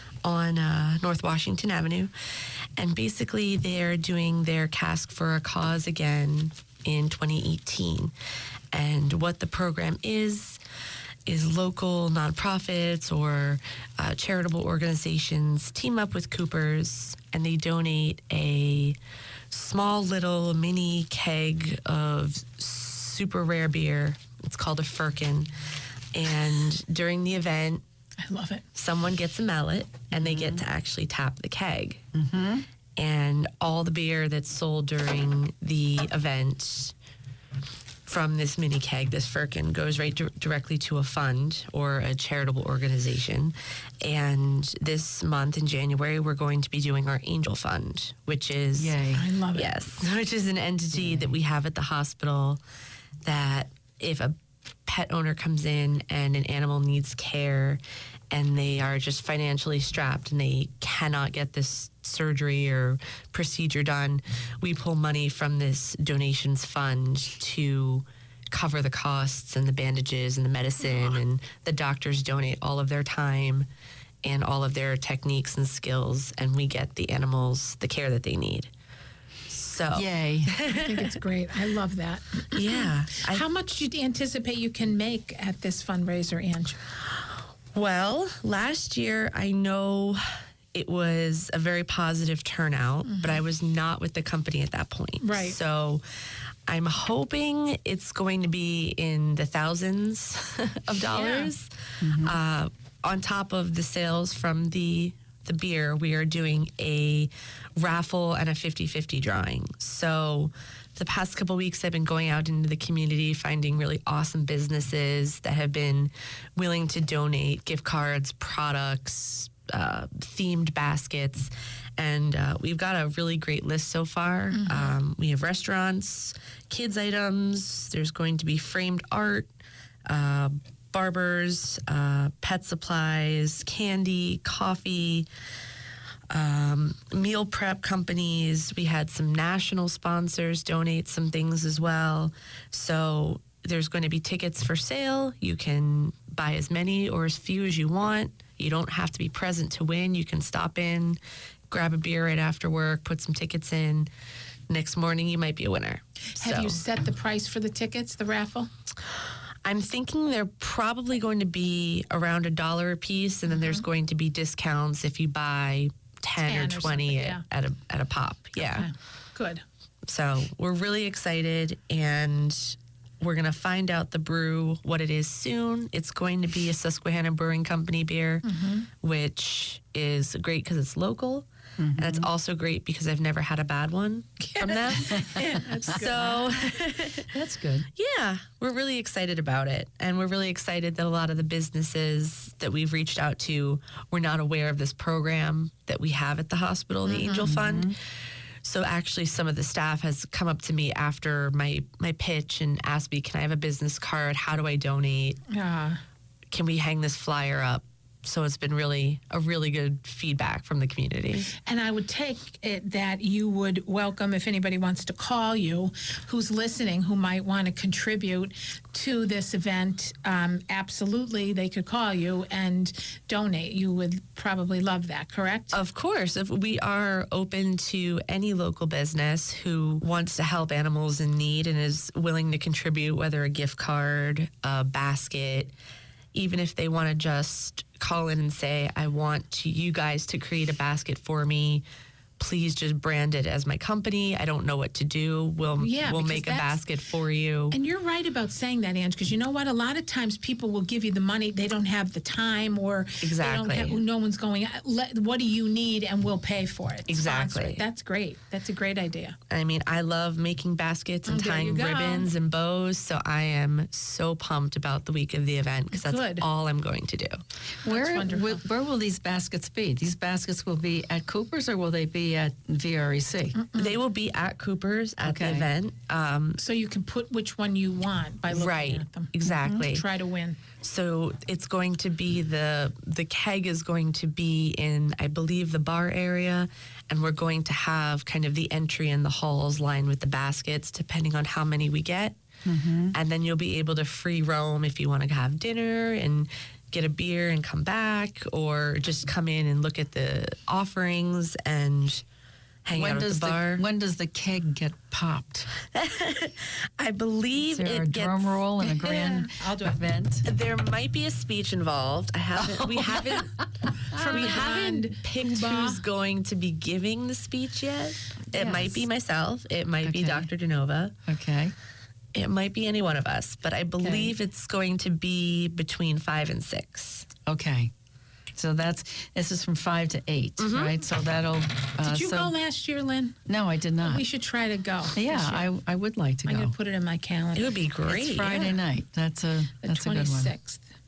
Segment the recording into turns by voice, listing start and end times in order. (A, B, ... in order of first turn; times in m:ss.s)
0:00.2-0:02.1 A
0:02.8-0:08.1 A
0:08.7-0:10.6 A
0:11.3-0:19.0 A
0:19.5-0:25.5 A
0:26.1-0:27.8 A
0:28.2-0:28.6 B
0:28.8-0:32.0 A
0:30.1-0:30.6 C
0:32.1-0:32.7 C
0:33.0-0:36.9 A
0:38.1-0:49.0 A
0:48.8-0:49.2 C
0:49.1-0:49.7 B
0:49.5-0:52.6 A
0:50.9-0:51.3 C
0:53.2-0:54.4 A
0:54.9-1:13.7 A
1:14.2-1:18.7 A
1:19.5-1:21.1 A
1:19.9-1:20.5 C
1:20.7-1:26.8 B
1:22.5-1:23.4 A
1:27.7-1:36.0 A
1:33.1-1:33.4 B
1:35.2-1:35.6 B
1:36.7-2:09.5 A
1:41.1-1:41.5 B
1:42.0-1:42.4 C
2:04.5-2:05.0 B
2:10.1-2:15.3 A
2:16.3-2:31.2 A
2:31.7-2:34.1 A
2:34.7-2:36.8 A
2:36.4-2:38.7 B
2:39.6-2:48.9 A
2:43.5-2:43.8 B
2:46.4-2:47.4 B
2:48.6-2:49.6 B
2:50.1-2:58.5 A
2:58.4-2:58.9 B
2:59.0-3:01.5 A
3:01.8-3:02.3 C
3:02.0-3:07.3 A
3:04.4-3:06.5 B
3:05.1-3:05.5 C
3:07.3-3:07.9 C
3:08.0-3:18.0 A
3:17.1-3:17.5 B
3:17.3-3:18.0 C
3:18.6-3:25.4 A
3:25.5-3:26.0 B
3:26.5-3:31.5 A
3:31.6-3:45.8 B
3:45.7-3:55.7 A
3:56.3-4:01.8 A
4:02.4-4:07.8 A
4:05.8-4:06.8 B
4:07.7-4:19.4 B
4:13.2-4:14.0 A
4:17.1-4:17.8 A
4:19.5-4:27.4 A
4:21.3-4:22.3 B
4:25.9-4:26.4 B
4:27.8-4:33.6 C
4:27.9-4:28.6 B
4:33.6-4:34.0 B
4:33.8-4:36.6 A
4:35.2-4:35.7 C
4:36.6-4:40.6 B
4:38.5-4:40.1 A
4:39.5-4:39.9 C
4:40.8-4:52.4 A
4:52.6-4:53.2 C
4:53.1-5:02.2 A
5:02.8-5:03.8 A
5:02.9-5:05.7 C
5:05.9-5:09.1 A
5:07.6-5:10.4 C
5:09.0-5:10.0 B
5:10.4-5:21.1 A
5:12.6-5:14.4 C
5:14.1-5:16.0 B
5:18.5-5:19.1 C
5:20.0-5:20.5 C
5:21.3-5:21.7 C
5:22.3-5:27.3 A
5:24.0-5:24.4 C
5:27.5-5:27.9 C
5:28.5-5:32.5 C
5:30.6-5:31.0 A
5:32.0-5:33.4 B
5:33.5-5:34.2 C
5:34.0-5:35.7 B
5:35.2-5:36.7 C
5:36.5-5:37.7 B
5:37.6-5:38.8 A
5:38.1-5:40.5 C
5:39.8-5:40.8 B